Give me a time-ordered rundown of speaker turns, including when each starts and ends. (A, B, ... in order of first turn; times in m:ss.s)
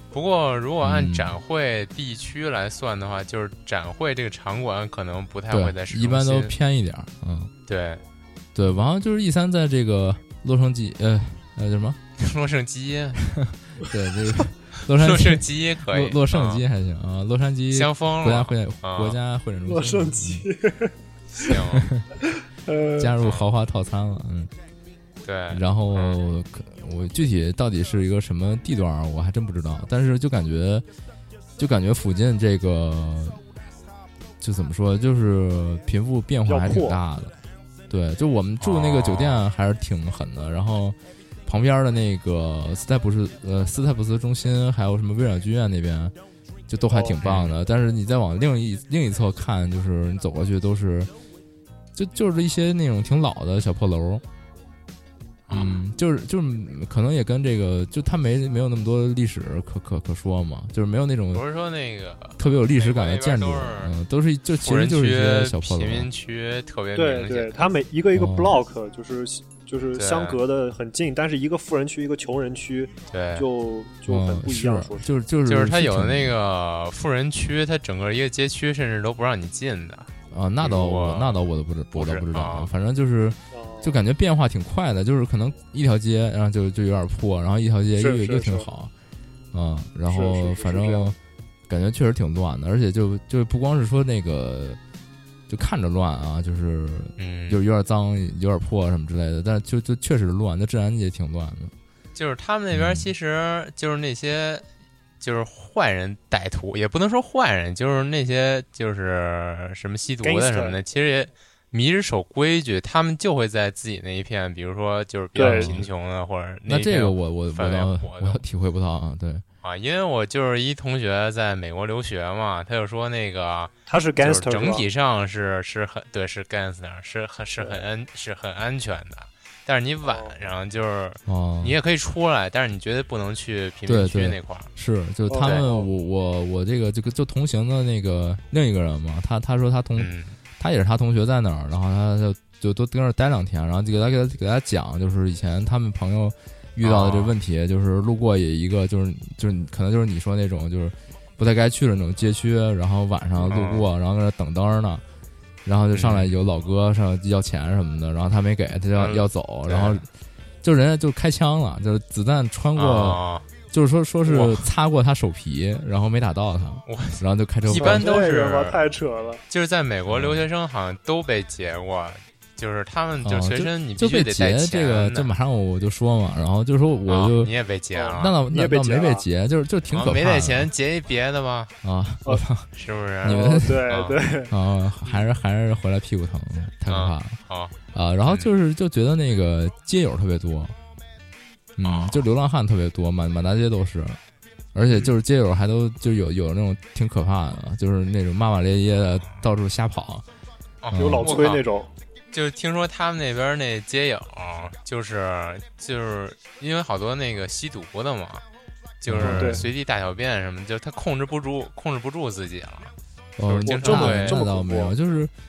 0:00.1-0:06.5 A
0:00.8-0:01.4 B
0:05.5-0:07.5 B
0:07.7-0:08.0 A
0:08.6-0:12.0 B
0:12.2-0:13.3 A
0:13.3-0:20.4 B
0:14.9-0:16.6 A
0:17.7-0:19.2 A
0:19.6-0:21.5 C
0:21.4-0:21.9 A
0:21.7-0:22.0 B
0:22.6-0:23.1 C
0:23.0-0:24.5 B
0:23.2-0:23.5 A
0:25.2-0:26.2 A
0:25.5-0:30.8 B
0:31.6-0:33.4 B
0:34.4-0:37.3 B
0:36.4-0:37.0 C
0:37.9-0:46.1 B
0:38.6-0:39.4 A
0:46.7-0:51.1 B
0:46.9-0:47.2 C
0:47.2-0:47.6 A
0:51.9-0:54.2 B
0:55.5-0:55.8 A
0:55.5-1:01.4 B
1:01.3-1:03.9 A
1:02.4-1:06.1 B
1:04.6-1:07.7 A
1:06.9-1:15.1 C
1:08.1-1:08.6 B
1:09.9-1:10.4 A
1:13.1-1:13.4 A
1:14.1-1:16.4 B
1:15.4-1:22.7 A
1:20.3-1:28.9 B
1:23.5-1:24.0 C
1:28.0-1:28.7 C
1:29.5-1:31.2 B
1:30.1-1:31.1 C
1:31.7-1:34.8 B
1:35.5-1:41.7 B
1:37.2-1:37.6 A
1:42.1-1:44.6 A
1:42.7-1:43.1 B
1:45.2-1:58.4 A
1:50.2-1:50.8 C
1:55.4-1:55.8 C
1:55.4-1:55.9 B
1:56.7-1:59.4 B
1:59.6-2:14.7 A
2:03.9-2:04.9 C
2:07.6-2:07.8 C
2:10.1-2:10.4 C
2:11.3-2:11.8 B
2:13.9-2:35.0 B
2:15.3-2:15.9 C
2:15.4-2:15.7 A
2:20.0-2:20.4 A
2:26.8-2:27.4 A
2:33.4-2:33.9 A
2:35.6-2:40.1 B
2:35.9-2:36.3 A
2:39.0-2:40.0 A
2:40.6-2:48.2 B
2:42.7-2:43.4 A
2:44.3-2:44.6 A
2:46.9-2:48.8 A
2:47.7-2:49.4 C
2:49.5-2:55.3 A
2:50.1-2:50.5 B
2:53.2-2:57.5 B
2:57.1-2:58.4 A
2:57.9-2:59.2 C
2:58.1-3:00.7 B
2:59.9-3:01.7 A
3:01.8-3:02.7 B
3:02.8-3:04.2 A
3:03.2-3:03.8 B
3:03.3-3:04.5 C
3:04.5-3:07.4 B
3:06.9-3:08.5 A
3:07.9-3:10.8 B
3:11.8-3:14.2 B
3:11.8-3:12.2 A
3:14.7-3:20.2 B
3:20.8-3:21.6 A
3:20.9-3:21.4 B
3:20.9-3:21.9 C
3:22.3-3:28.4 A
3:29.0-3:34.4 A
3:29.1-3:29.7 B
3:29.2-3:29.6 C
3:33.4-3:35.3 B
3:33.6-3:34.9 C